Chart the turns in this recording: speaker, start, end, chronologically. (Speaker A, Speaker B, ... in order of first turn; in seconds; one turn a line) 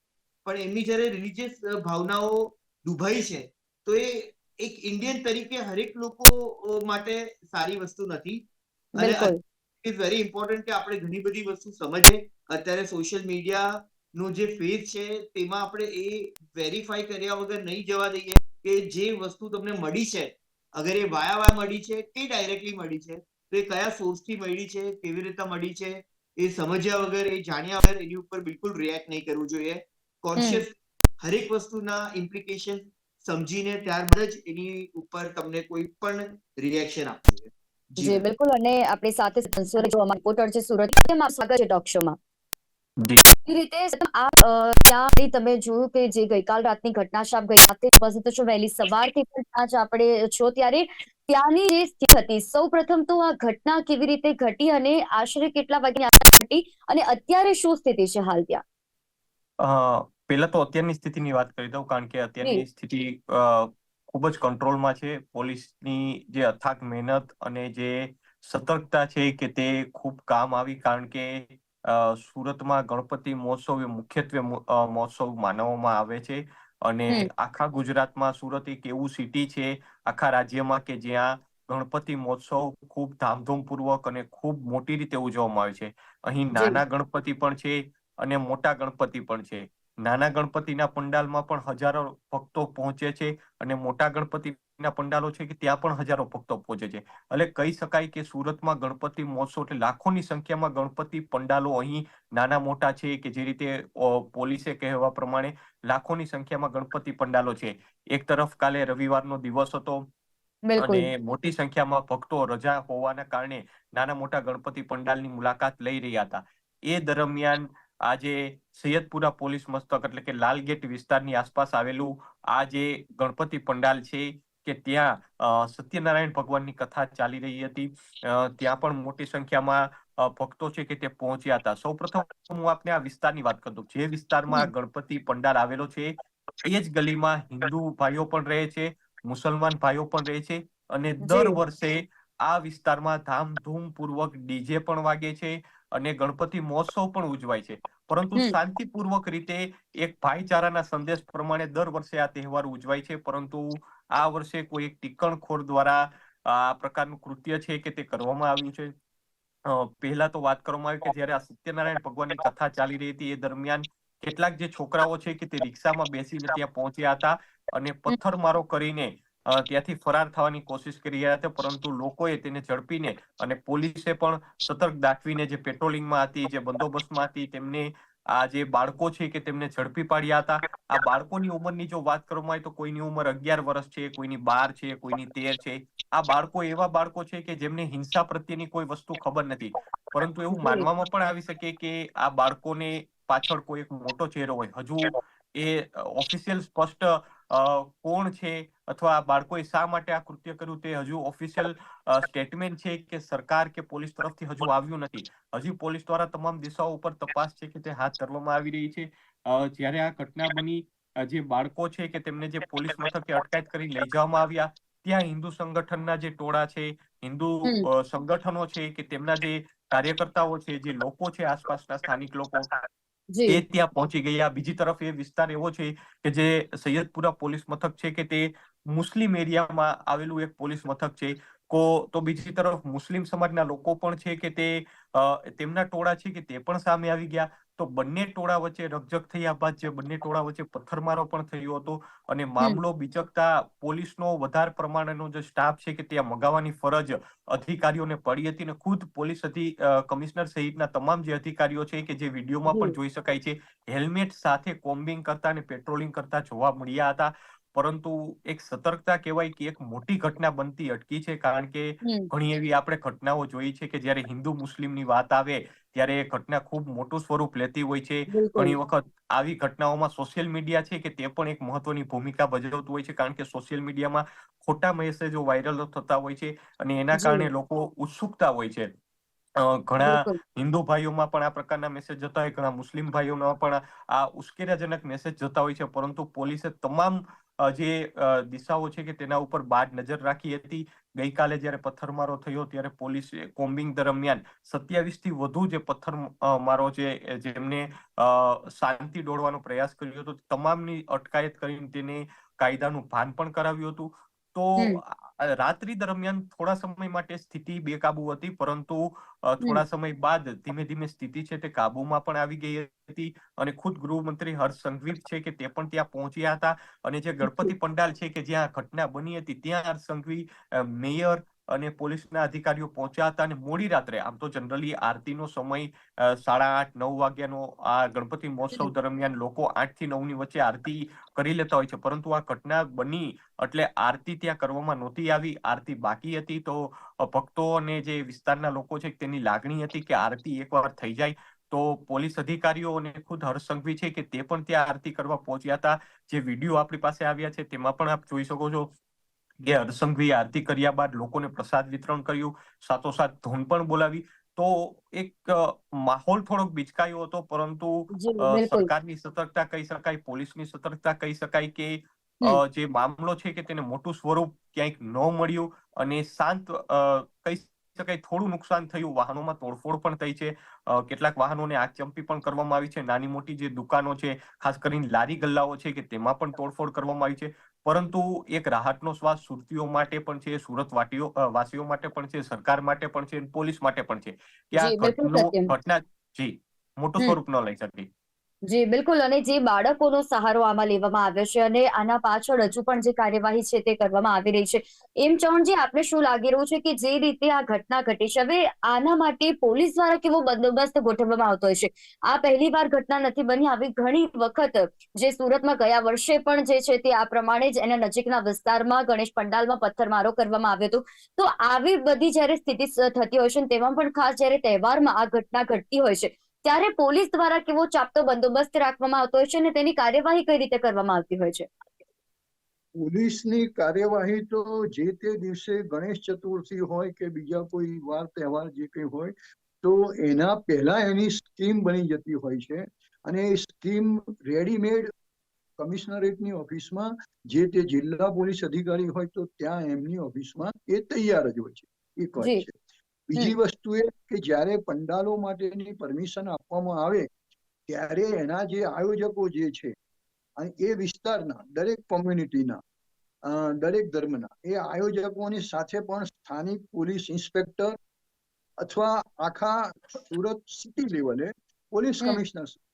Speaker A: 0.4-38.2
Speaker B: 8.9-9.4
Speaker B: 30.4-30.6
Speaker B: 38.0-42.2
Speaker C: 43.0-43.3
Speaker B: 43.5-58.6
Speaker C: 59.6-110.0
Speaker B: 110.7-111.1
Speaker C: 110.8-136.1
Speaker C: 136.6-158.9
Speaker B: 141.2-141.6
Speaker C: 159.7-222.7
Speaker B: 190.5-190.9
Speaker B: 223.3-223.6
Speaker C: 223.5-278.9
Speaker B: 252.7-252.9
Speaker B: 262.0-262.3
Speaker B: 268.3-268.7
Speaker B: 277.1-277.5
Speaker C: 279.6-348.9
Speaker B: 280.0-280.4
Speaker B: 317.4-317.7
Speaker C: 349.6-388.1
Speaker B: 358.1-358.9
Speaker B: 384.8-385.7
Speaker B: 388.7-421.7
Speaker D: 423.0-435.1
Speaker D: 435.8-442.8
Speaker D: 443.3-447.3
Speaker D: 447.9-449.9
Speaker D: 450.6-452.8
Speaker D: 453.4-457.9
Speaker D: 458.8-462.8